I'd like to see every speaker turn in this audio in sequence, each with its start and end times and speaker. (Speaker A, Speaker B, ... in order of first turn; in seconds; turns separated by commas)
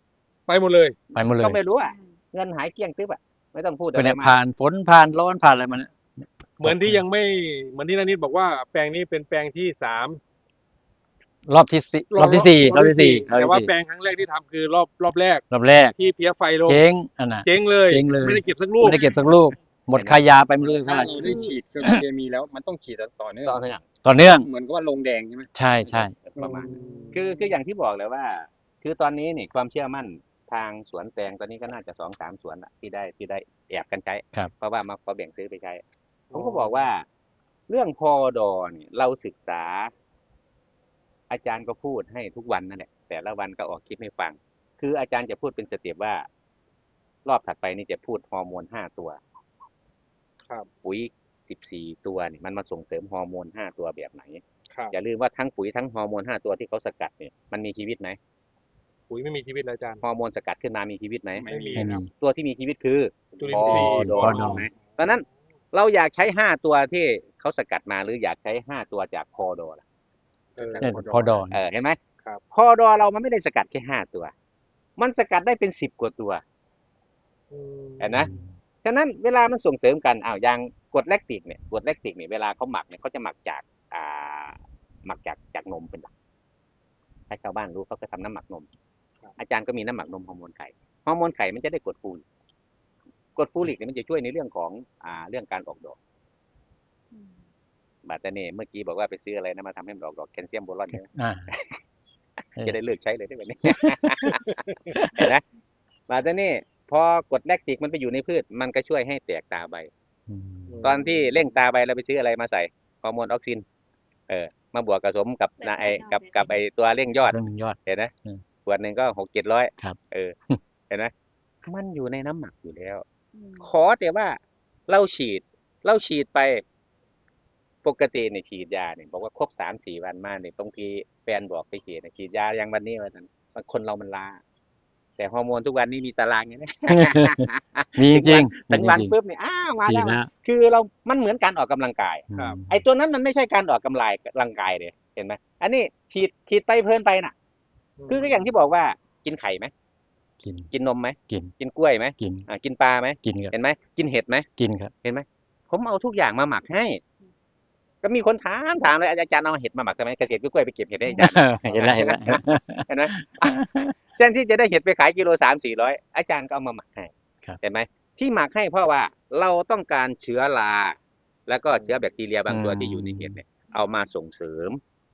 Speaker A: 0.5-1.0, Speaker B: 1.1-1.6, Speaker C: 1.4-4.4, Speaker D: 1.7-2.2, Speaker B: 4.0-7.0, Speaker A: 6.6-10.2, Speaker B: 11.5-13.7, Speaker A: 12.1-16.8, Speaker B: 15.5-15.9, Speaker B: 16.7-22.0, Speaker A: 17.4-19.1, Speaker D: 18.8-19.5, Speaker C: 19.9-20.2, Speaker E: 20.7-23.7, Speaker A: 20.9-21.5, Speaker C: 23.4-23.8, Speaker B: 24.0-24.5, Speaker E: 24.3-25.5, Speaker B: 25.6-26.2, Speaker C: 25.9-35.8, Speaker E: 26.4-27.1, Speaker A: 26.4-27.3, Speaker A: 36.3-36.8, Speaker C: 36.3-37.0, Speaker C: 37.7-39.9, Speaker C: 41.3-46.3, Speaker C: 47.3-49.2, Speaker C: 50.8-58.2, Speaker A: 59.1-60.0, Speaker C: 60.0-61.5, Speaker E: 61.3-62.0, Speaker A: 61.5-62.0, Speaker B: 61.8-62.1, Speaker C: 62.1-69.8, Speaker E: 63.3-64.1, Speaker A: 63.4-65.2, Speaker B: 63.6-64.7, Speaker A: 70.6-71.0, Speaker E: 70.6-71.5, Speaker B: 70.8-71.6, Speaker C: 71.5-72.0, Speaker C: 72.5-74.3, Speaker C: 75.0-76.4, Speaker A: 77.5-78.2, Speaker C: 78.0-78.3, Speaker B: 78.2-78.5, Speaker C: 78.8-86.1, Speaker C: 87.3-88.7, Speaker C: 89.4-92.2, Speaker C: 93.4-96.0, Speaker D: 97.1-97.4, Speaker C: 98.0-101.8, Speaker B: 101.1-101.5, Speaker C: 102.6-105.4, Speaker B: 103.7-104.4, Speaker B: 105.0-105.3, Speaker C: 106.1-109.9, Speaker B: 110.3-110.8, Speaker A: 110.7-111.2, Speaker C: 110.8-113.7, Speaker C: 114.3-118.1, Speaker D: 115.6-116.5, Speaker B: 117.3-118.4, Speaker C: 118.7-120.4, Speaker C: 121.6-123.0, Speaker D: 123.3-123.7, Speaker C: 123.6-126.6, Speaker C: 127.8-134.4, Speaker C: 135.2-147.3, Speaker B: 136.9-139.1, Speaker B: 139.8-140.3, Speaker B: 142.3-142.8, Speaker A: 148.0-148.5, Speaker C: 148.1-149.7, Speaker B: 150.4-150.7, Speaker C: 150.7-154.5, Speaker B: 151.3-151.5, Speaker B: 152.2-152.5, Speaker B: 153.2-153.6, Speaker B: 154.6-154.9, Speaker C: 155.0-157.0, Speaker C: 158.0-174.8, Speaker B: 161.2-163.9, Speaker B: 172.5-173.4